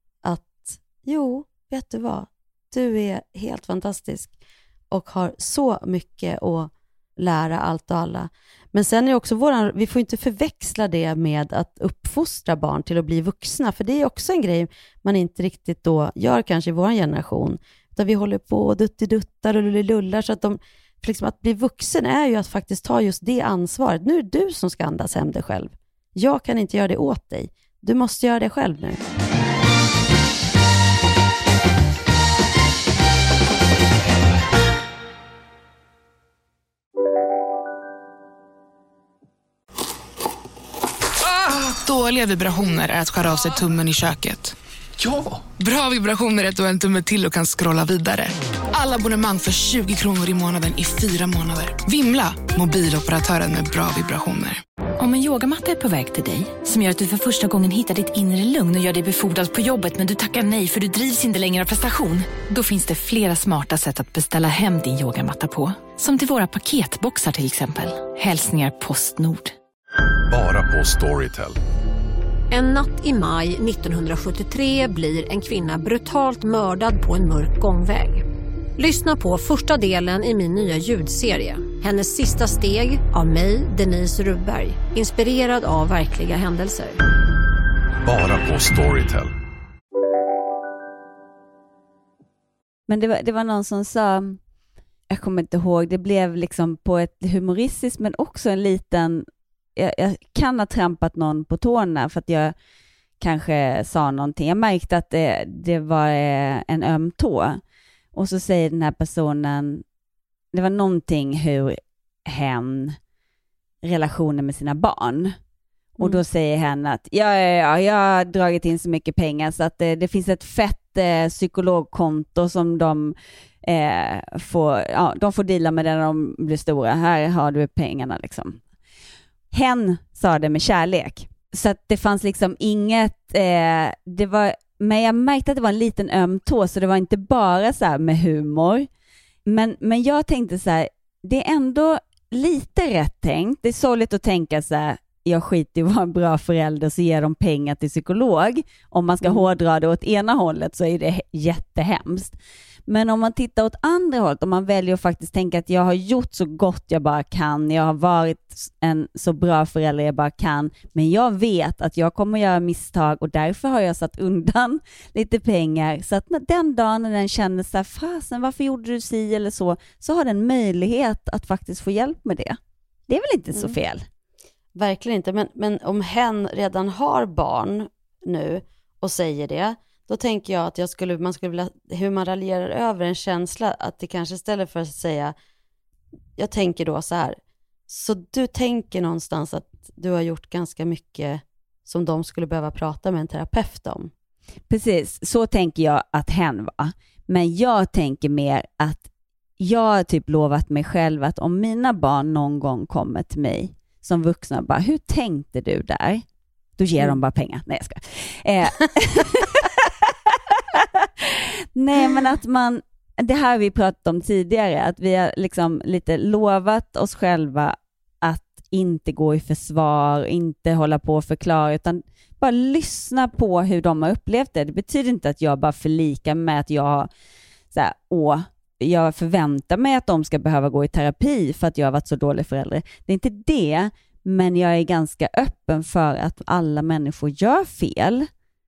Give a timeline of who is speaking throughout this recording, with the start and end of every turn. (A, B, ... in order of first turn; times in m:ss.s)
0:00.2-0:04.3 A
0:04.9-0:29.0 A
0:41.2-0:44.5 B
0:45.5-0:54.6 B
0:55.0-1:09.5 C
1:10.3-1:11.6 D
1:12.5-1:18.2 E
1:18.8-1:27.0 E
1:28.0-1:29.3 D
1:32.9-1:34.4 F
1:35.1-1:39.2 F
1:39.8-1:42.5 F
1:43.2-1:47.6 F
1:48.1-1:49.8 F
1:50.5-1:53.0 F
1:53.8-1:55.4 F
1:56.0-2:08.6 F
2:09.5-2:18.9 F
2:19.4-2:32.4 F
2:29.2-2:29.5 A
2:32.9-2:54.0 F
2:53.5-2:53.8 A
2:54.7-3:05.3 A
3:06.4-3:14.1 A
3:14.7-3:19.1 F
3:19.6-3:26.2 F
3:26.8-3:47.1 F
3:47.7-3:58.3 F